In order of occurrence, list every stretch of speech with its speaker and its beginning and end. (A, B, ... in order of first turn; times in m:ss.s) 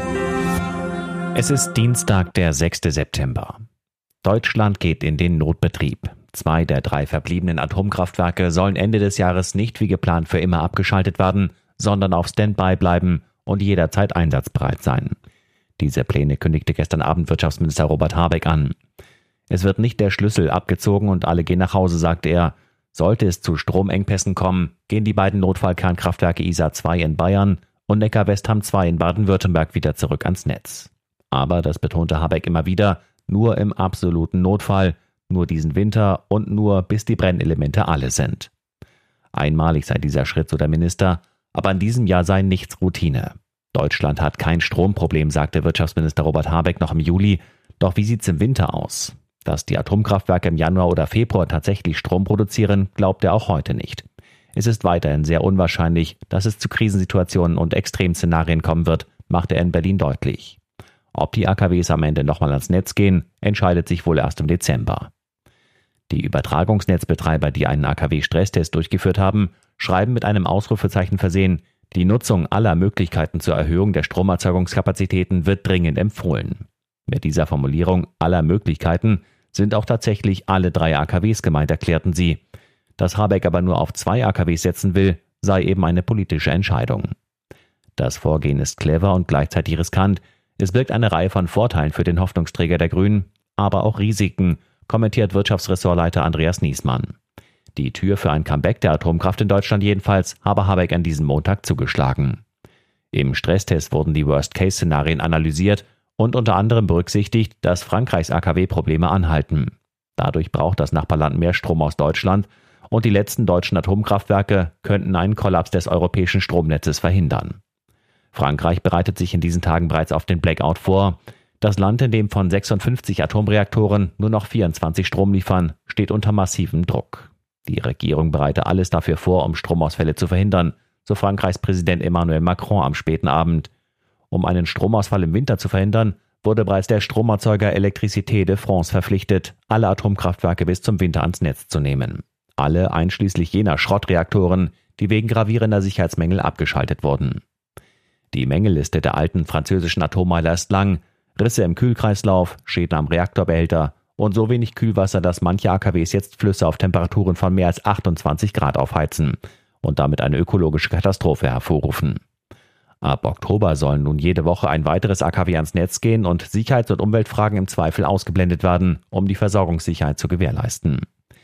0:01.3-0:03.6 A
0:04.2-0:15.2 A
0:15.8-0:18.8 A
0:19.5-0:38.5 A
0:39.3-1:00.6 A
1:01.1-1:05.1 A
1:06.1-1:22.4 A
1:23.0-1:27.1 A
1:28.0-1:37.1 A
1:37.8-1:42.4 A
1:43.1-1:57.6 A
1:58.3-2:13.7 A
2:14.3-2:27.4 A
2:28.3-2:42.2 A
2:43.0-2:51.0 A